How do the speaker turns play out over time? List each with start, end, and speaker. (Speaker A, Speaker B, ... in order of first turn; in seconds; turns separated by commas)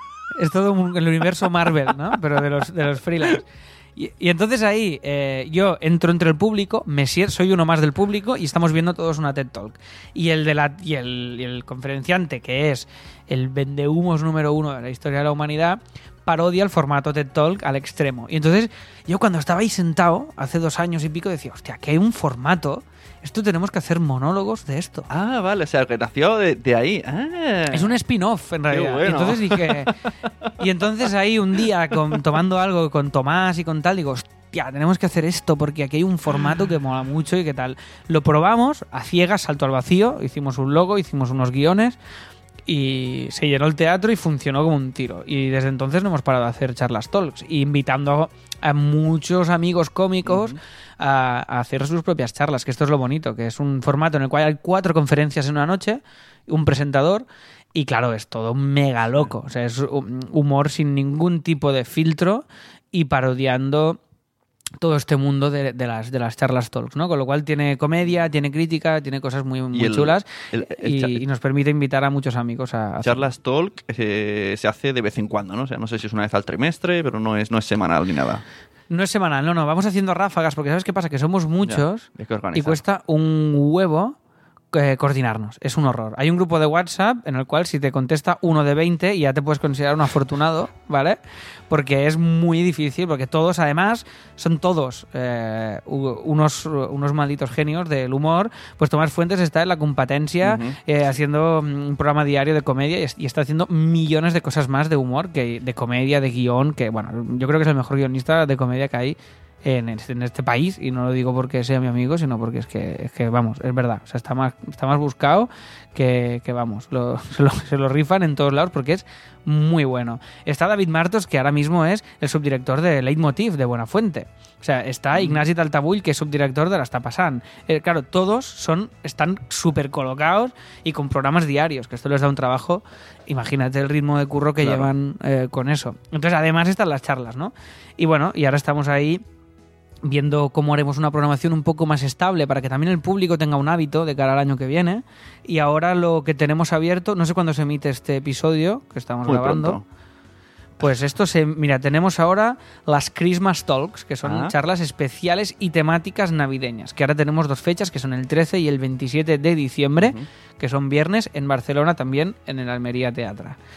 Speaker A: 0.4-3.5, Speaker A: 4.0-25.1, Speaker B: 25.1-27.9, Speaker A: 27.7-29.9, Speaker B: 28.7-30.5, Speaker A: 30.6-42.0, Speaker A: 42.7-64.0, Speaker B: 50.3-50.6, Speaker A: 64.8-73.3, Speaker B: 69.7-71.2, Speaker B: 73.0-78.4, Speaker A: 78.9-84.2, Speaker B: 81.6-82.8, Speaker A: 84.7-91.2, Speaker A: 91.7-139.2, Speaker B: 100.4-100.8, Speaker B: 125.1-125.4, Speaker B: 134.6-134.9, Speaker A: 140.0-149.8, Speaker B: 149.2-149.8, Speaker A: 150.8-163.6, Speaker B: 154.2-154.5, Speaker B: 160.0-160.3